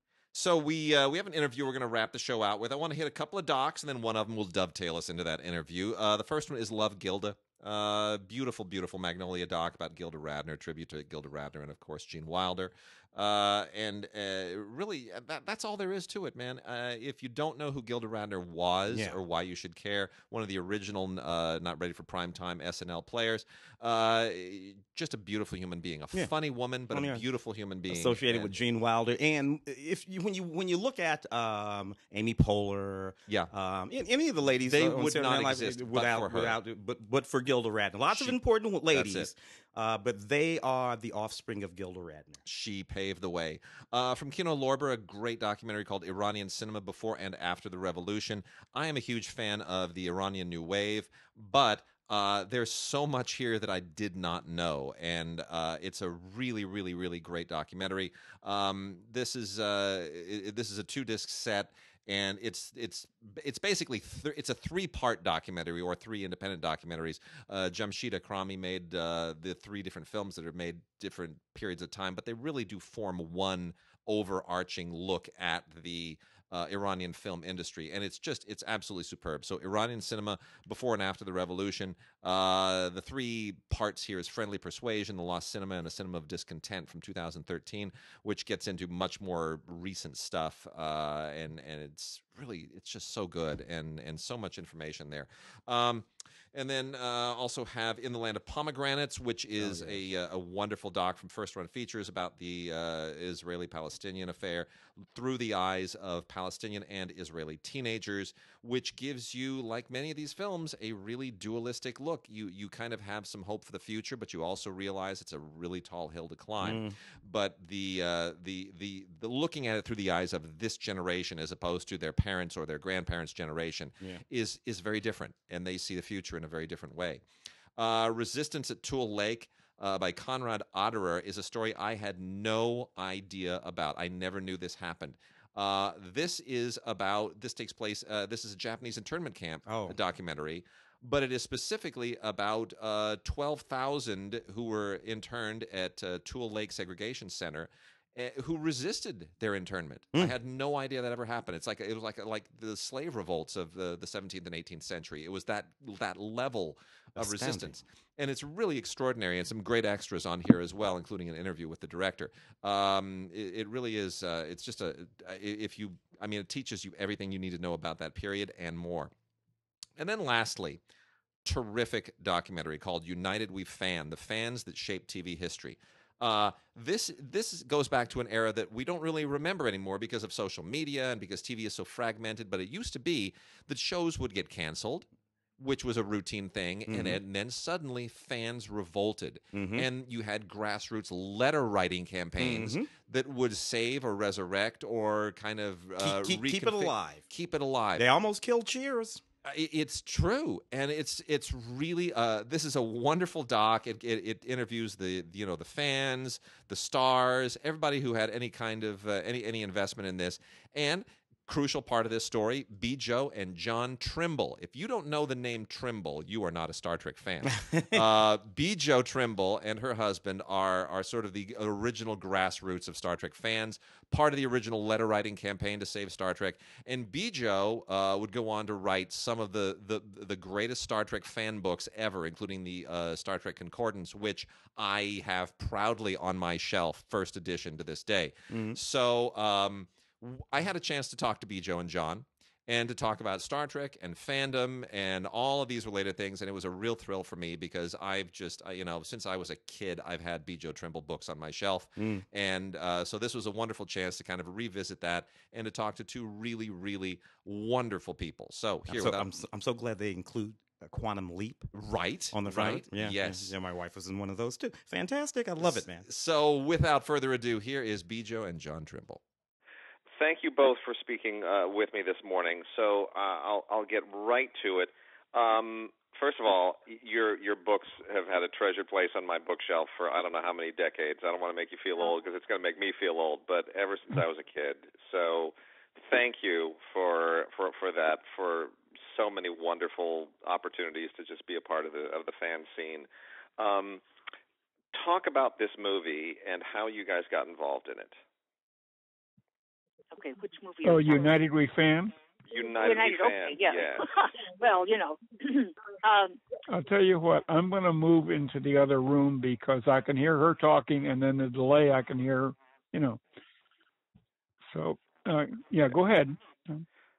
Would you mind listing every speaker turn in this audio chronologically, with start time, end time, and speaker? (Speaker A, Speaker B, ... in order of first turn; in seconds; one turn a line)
Speaker A: 0.3-28.6
Speaker B: 18.9-19.2
Speaker B: 26.9-27.2
Speaker B: 27.9-42.4
Speaker A: 34.7-36.6
Speaker A: 38.1-38.4
Speaker A: 38.9-39.3
Speaker A: 42.5-127.2
Speaker B: 99.6-100.1
Speaker B: 116.6-117.0
Speaker A: 127.8-169.1
Speaker B: 139.7-140.0
Speaker B: 157.2-157.8
Speaker A: 170.0-170.8
Speaker A: 171.4-185.1
Speaker A: 185.6-198.1
Speaker B: 186.9-187.2
Speaker B: 189.5-189.9
Speaker B: 192.4-192.9
Speaker B: 196.0-197.2
Speaker B: 197.9-199.2
Speaker A: 199.4-259.3
Speaker B: 217.7-218.0
Speaker B: 238.5-238.8
Speaker B: 252.0-252.2
Speaker B: 258.9-261.7
Speaker A: 261.7-263.5
Speaker B: 262.3-266.1
Speaker A: 265.6-269.2
Speaker C: 270.2-293.1
Speaker C: 293.6-294.0
Speaker C: 294.9-298.1
Speaker D: 300.1-301.4
Speaker E: 300.9-302.1
Speaker C: 302.5-304.0
Speaker D: 302.8-306.4
Speaker E: 306.7-313.2
Speaker E: 314.7-316.9